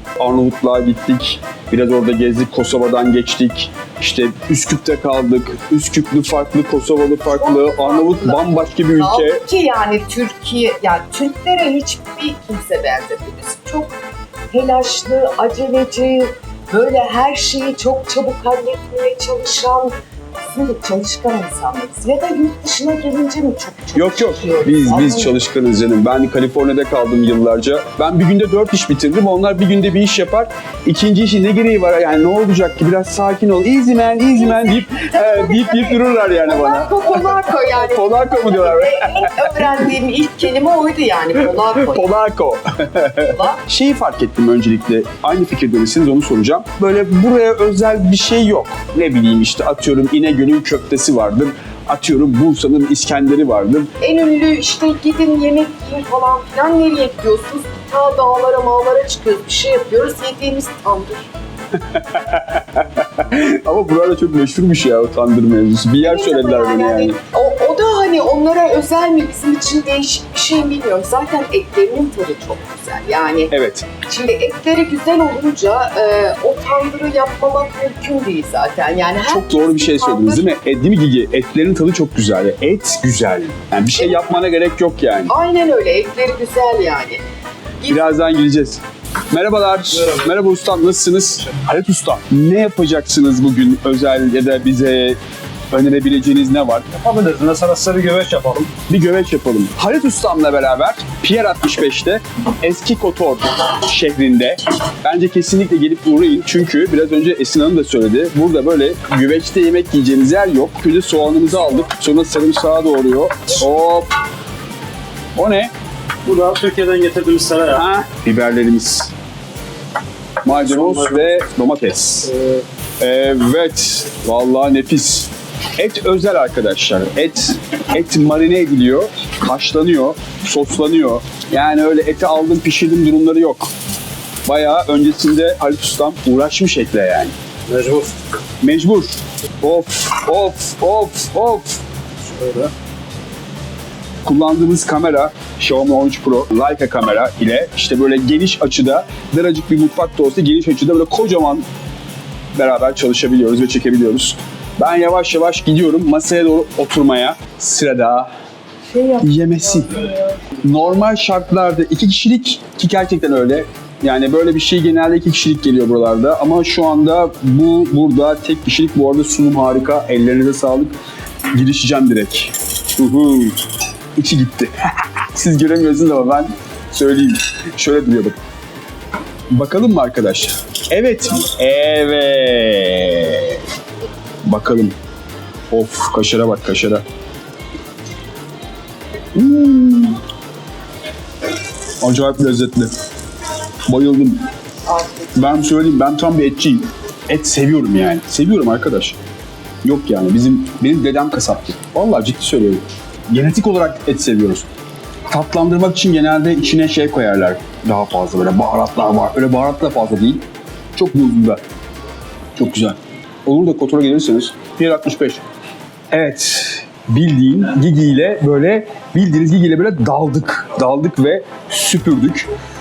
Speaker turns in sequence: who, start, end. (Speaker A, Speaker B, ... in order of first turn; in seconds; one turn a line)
Speaker A: 0.2-9.4
Speaker B: 7.3-14.0
Speaker B: 14.5-25.4
Speaker A: 23.9-39.6
Speaker B: 34.3-42.2
Speaker A: 41.8-53.9
Speaker B: 43.2-43.6
Speaker B: 54.0-61.3
Speaker A: 61.7-67.2
Speaker B: 66.0-80.5
Speaker A: 73.5-73.9
Speaker A: 79.2-85.3
Speaker B: 83.9-84.3
Speaker B: 85.3-87.2
Speaker B: 87.8-88.1
Speaker A: 87.9-95.2
Speaker A: 95.7-96.9
Speaker C: 97.0-98.7
Speaker A: 98.7-114.1
Speaker A: 115.3-115.7
Speaker C: 116.2-117.8
Speaker A: 117.7-119.1
Speaker A: 120.4-122.4
Speaker C: 120.8-121.1
Speaker A: 123.0-133.7
Speaker A: 134.4-137.3
Speaker C: 137.7-138.1
Speaker A: 138.6-141.8
Speaker C: 142.3-142.7
Speaker A: 144.2-151.7
Speaker A: 152.5-158.3
Speaker B: 158.9-160.2
Speaker A: 159.2-171.0
Speaker A: 171.5-173.6
Speaker A: 174.2-178.4
Speaker A: 179.5-183.6
Speaker A: 184.4-184.9
Speaker A: 185.7-187.0
Speaker A: 189.3-190.2
Speaker A: 192.0-192.9
Speaker A: 193.9-194.4
Speaker B: 194.9-195.3
Speaker A: 195.3-199.2
Speaker A: 199.8-204.7
Speaker A: 205.3-210.4
Speaker A: 210.9-211.6
Speaker A: 212.6-215.4
Speaker A: 216.1-222.5